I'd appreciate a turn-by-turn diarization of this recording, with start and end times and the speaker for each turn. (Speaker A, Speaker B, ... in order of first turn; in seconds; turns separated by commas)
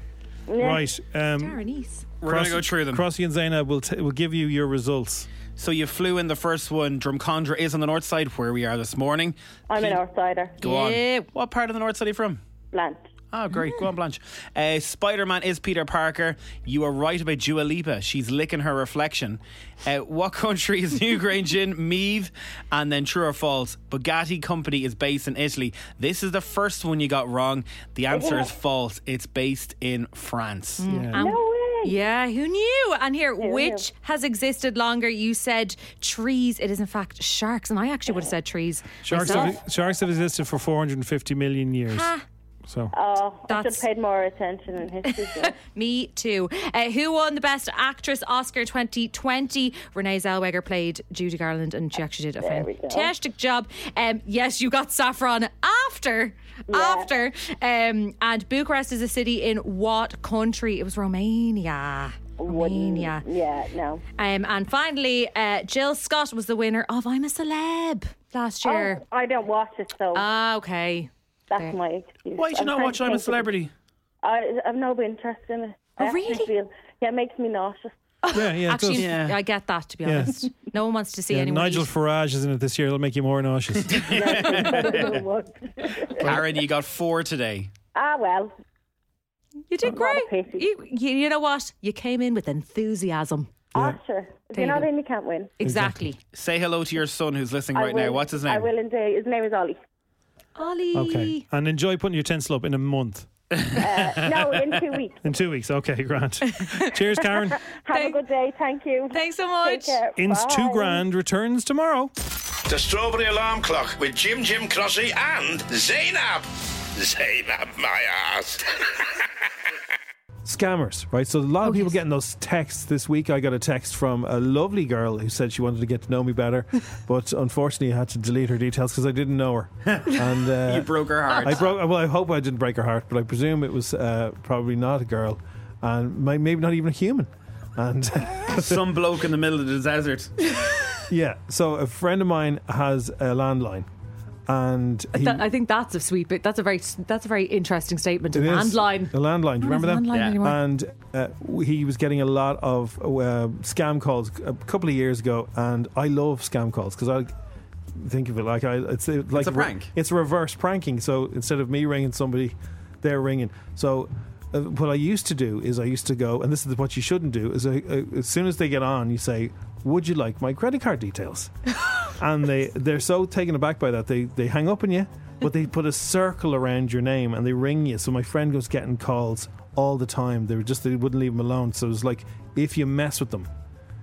Speaker A: 0.5-0.8, Speaker B: 0.6-1.6, Speaker C: 1.4-2.1, Speaker D: 2.2-3.0, Speaker B: 2.2-5.3, Speaker D: 5.6-10.0, Speaker A: 9.7-10.6, Speaker C: 10.6-11.3, Speaker D: 10.6-12.4, Speaker A: 12.7-13.0, Speaker D: 13.3-30.8, Speaker A: 28.1-28.5, Speaker C: 30.8-39.6, Speaker B: 30.9-31.2, Speaker A: 31.1-32.0, Speaker A: 33.4-33.9, Speaker B: 39.0-42.1, Speaker C: 41.9-42.2, Speaker B: 42.7-42.9, Speaker A: 42.9-45.5, Speaker C: 43.5-43.8, Speaker C: 45.1-63.2, Speaker A: 52.4-53.1, Speaker A: 56.7-57.1, Speaker A: 62.4-64.0, Speaker C: 64.2-69.0, Speaker A: 68.6-70.2, Speaker C: 70.1-71.8, Speaker A: 71.5-73.5, Speaker D: 72.4-73.7, Speaker A: 74.2-77.9, Speaker C: 76.0-76.5, Speaker C: 78.2-81.9, Speaker B: 78.3-79.3, Speaker D: 79.0-79.3, Speaker B: 80.0-80.5, Speaker B: 81.3-85.1, Speaker D: 83.8-84.6, Speaker A: 84.1-86.2, Speaker C: 84.7-85.2, Speaker D: 86.2-87.7, Speaker A: 87.9-88.5, Speaker C: 89.7-93.5, Speaker A: 89.8-90.6, Speaker A: 93.7-95.5, Speaker C: 94.5-94.9, Speaker C: 95.6-96.2, Speaker B: 95.6-96.1, Speaker D: 96.3-98.7, Speaker A: 97.8-99.8, Speaker C: 100.6-101.4, Speaker B: 100.9-104.2, Speaker A: 103.8-105.2, Speaker B: 105.2-107.6, Speaker C: 106.5-107.0, Speaker A: 107.9-111.0, Speaker C: 107.9-108.2, Speaker C: 109.1-110.0, Speaker B: 110.2-112.1, Speaker E: 112.7-116.5, Speaker E: 117.0-118.7, Speaker B: 120.5-138.9, Speaker C: 121.7-121.9, Speaker D: 130.6-131.7, Speaker D: 138.5-140.3, Speaker B: 141.1-143.9, Speaker B: 144.5-145.5, Speaker C: 145.1-150.6, Speaker B: 148.3-157.3, Speaker B: 157.9-171.6, Speaker D: 159.3-159.9, Speaker B: 172.2-183.5